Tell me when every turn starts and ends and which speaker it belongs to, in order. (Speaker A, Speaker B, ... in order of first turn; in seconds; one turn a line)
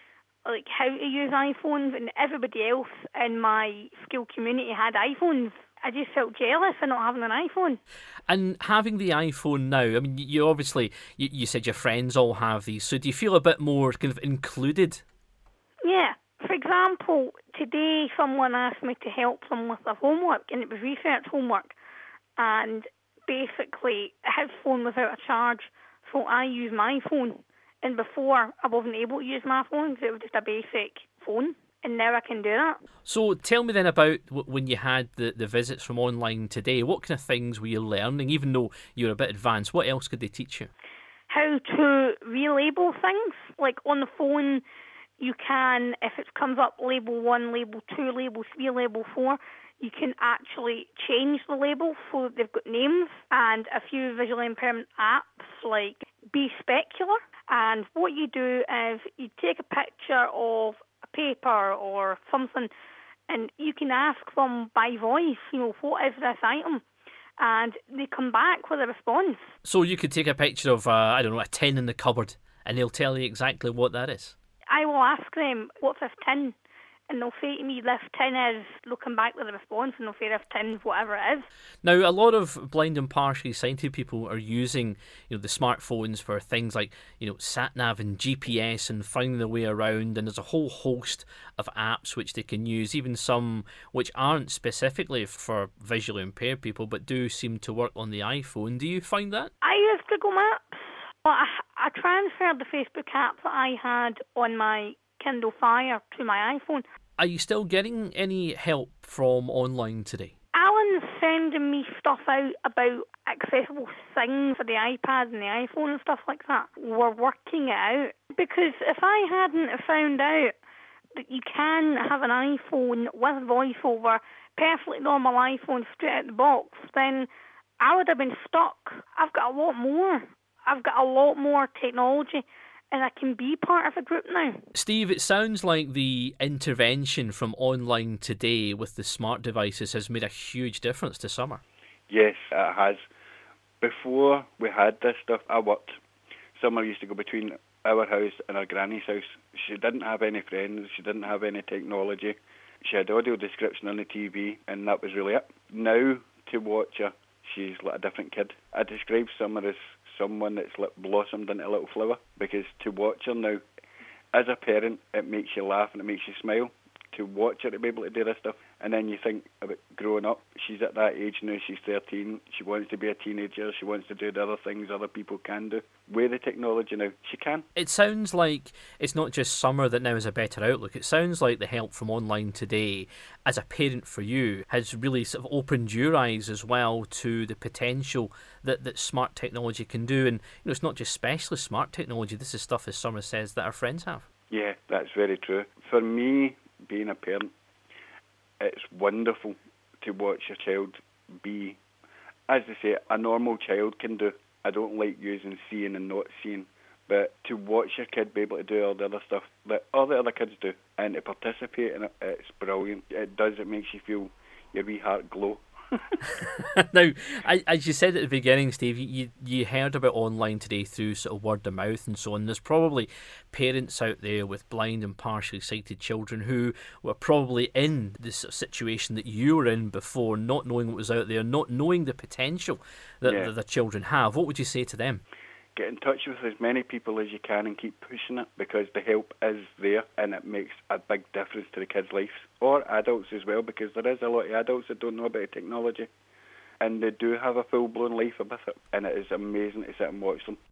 Speaker A: 0.5-7.8
Speaker B: 8.3-15.0
Speaker A: 15.8-21.8
Speaker A: 22.4-32.8
Speaker B: 33.1-40.7
Speaker A: 41.3-44.6
Speaker A: 45.2-62.7
Speaker A: 63.3-66.8
Speaker A: 67.4-69.5
Speaker B: 69.7-74.3
Speaker A: 74.7-76.5
Speaker A: 77.1-81.5
Speaker B: 81.8-99.5
Speaker A: 99.6-106.8
Speaker B: 107.2-110.3
Speaker A: 110.5-120.5
Speaker A: 121.2-127.3
Speaker A: 127.8-134.7
Speaker B: 134.8-141.6
Speaker C: 142.1-143.0
Speaker C: 143.8-146.0
Speaker C: 146.6-163.6
Speaker C: 164.3-177.7
Speaker B: 177.8-194.2
Speaker C: 194.5-197.5
Speaker C: 198.6-201.8
Speaker C: 202.5-216.0
Speaker B: 216.4-235.2
Speaker C: 233.2-233.5
Speaker C: 235.8-246.1
Speaker C: 246.8-250.6